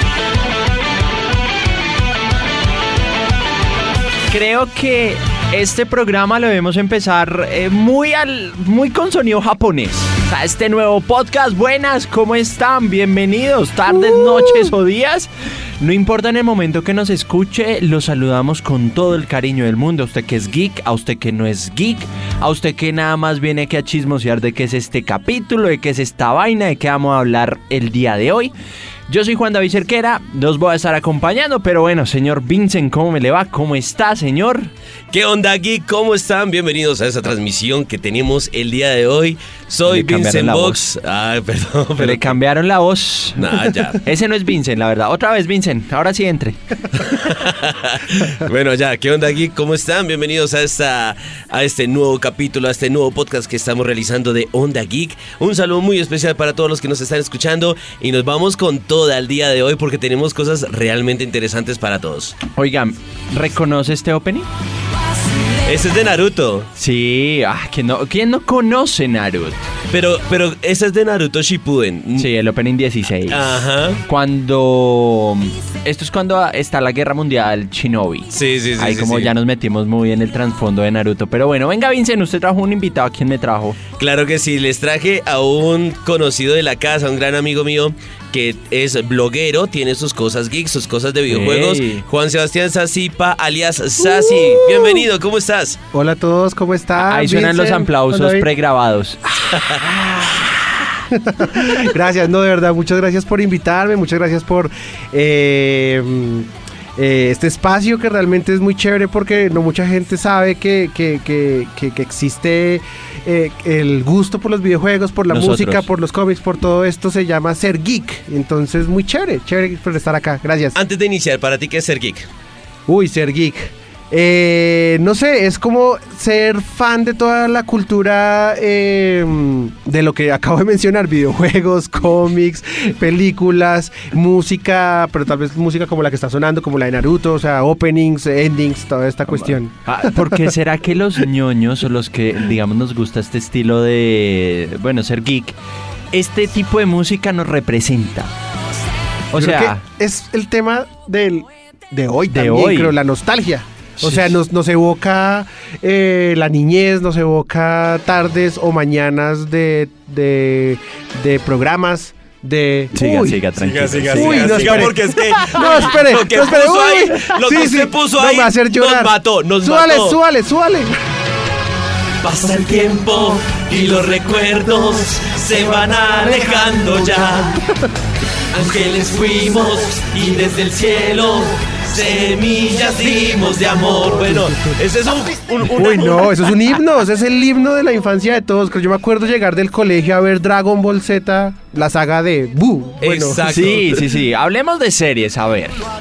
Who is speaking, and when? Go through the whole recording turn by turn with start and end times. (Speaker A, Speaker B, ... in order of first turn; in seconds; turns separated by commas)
Speaker A: 4.3-15.3, Speaker B: 13.9-14.7, Speaker A: 15.8-28.5, Speaker A: 29.1-34.7, Speaker C: 35.1-42.4, Speaker A: 39.9-40.8, Speaker A: 42.0-43.4, Speaker C: 43.4-44.0, Speaker A: 44.0-46.6, Speaker C: 47.0-62.4, Speaker A: 62.5-64.5, Speaker C: 65.6-66.7, Speaker A: 66.8-69.6, Speaker C: 69.9-72.3, Speaker A: 72.2-83.8, Speaker C: 73.3-74.0, Speaker C: 78.3-79.3, Speaker C: 84.0-95.8, Speaker A: 91.3-92.0, Speaker B: 94.0-95.0, Speaker B: 95.9-98.5, Speaker A: 97.0-99.2, Speaker B: 99.4-120.8, Speaker A: 115.3-115.9, Speaker C: 120.8-122.3, Speaker B: 122.9-140.5, Speaker A: 139.3-145.6, Speaker A: 146.1-148.3, Speaker A: 149.3-149.8, Speaker B: 149.3-163.5, Speaker A: 152.3-152.9, Speaker A: 154.0-154.3, Speaker A: 162.9-164.9, Speaker C: 163.6-170.2, Speaker B: 164.1-170.9, Speaker C: 172.2-177.6, Speaker B: 176.1-177.9, Speaker C: 178.5-186.4, Speaker B: 184.2-184.7, Speaker B: 185.7-193.6, Speaker C: 193.0-194.1, Speaker A: 193.4-195.8